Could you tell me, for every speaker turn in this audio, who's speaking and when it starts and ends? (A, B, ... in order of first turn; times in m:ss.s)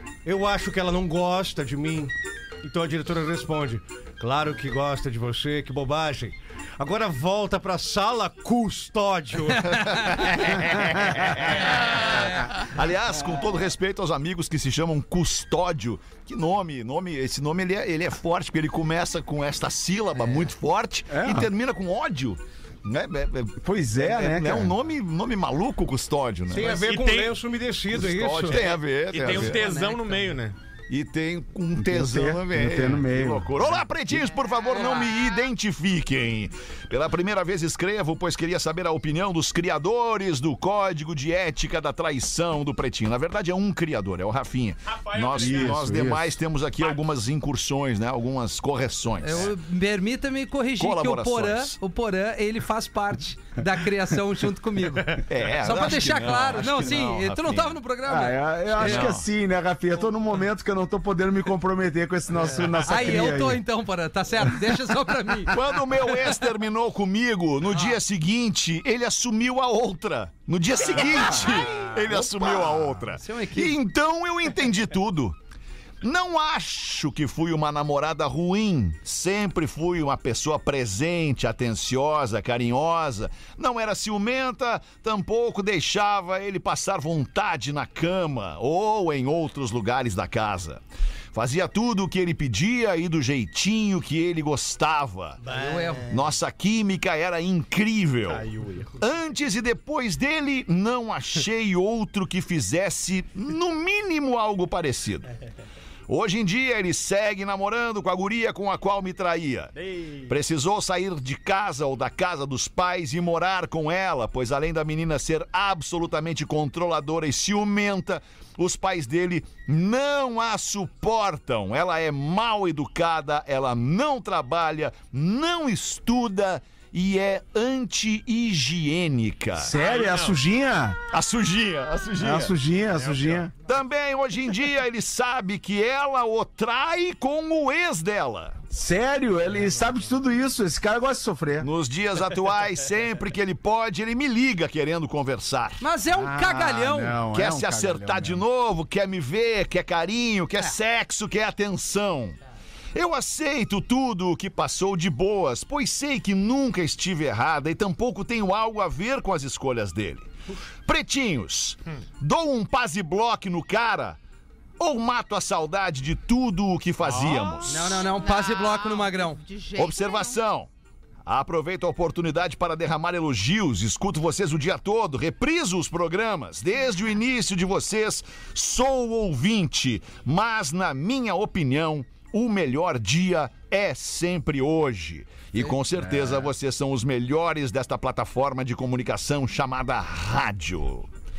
0:00.2-0:10.3 A
0:09.7-0:26.9 B
0:21.1-0:21.5 C
0:23.6-0:24.8 C
0:26.5-0:30.3 A
0:26.6-0:27.4 D
0:27.9-0:29.6 B
0:28.5-0:30.6 D
0:30.9-0:49.5 B
0:31.7-0:33.6 C
0:34.2-0:35.5 E
0:44.9-0:46.0 D
0:45.4-0:46.4 C
0:49.2-0:59.2 F
0:50.8-0:51.8 B
0:55.2-0:57.8 B
0:58.1-1:03.6 C
0:58.8-0:59.2 B
1:02.8-1:06.3 F
1:04.5-1:04.8 C
1:05.5-1:15.4 B
1:07.7-1:08.0 F
1:11.0-1:11.5 C
1:13.1-1:13.8 F
1:16.0-1:35.4 B
1:35.4-1:36.2 A
1:35.5-1:36.1 F
1:36.1-1:38.5 B
1:38.4-1:38.9 D
1:39.0-1:45.3 B
1:46.1-1:49.7 B
1:49.8-1:50.3 D
1:50.3-2:09.8 B
2:09.6-2:11.0 C
2:09.8-2:10.4 D
2:11.1-2:12.5 B
2:12.2-2:13.5 C
2:12.9-2:13.5 D
2:13.6-2:18.6 B
2:18.7-2:21.7 C
2:21.6-2:25.8 B
2:25.8-2:27.2 F
2:26.1-2:28.4 C
2:27.3-2:32.4 B
2:32.9-2:40.3 B
2:40.8-2:44.2 B
2:44.8-2:48.1 B
2:47.0-2:47.8 D
2:47.7-2:49.4 F
2:47.9-2:50.4 E
2:49.8-2:50.7 B
2:51.3-3:11.1 B
3:06.0-3:06.5 C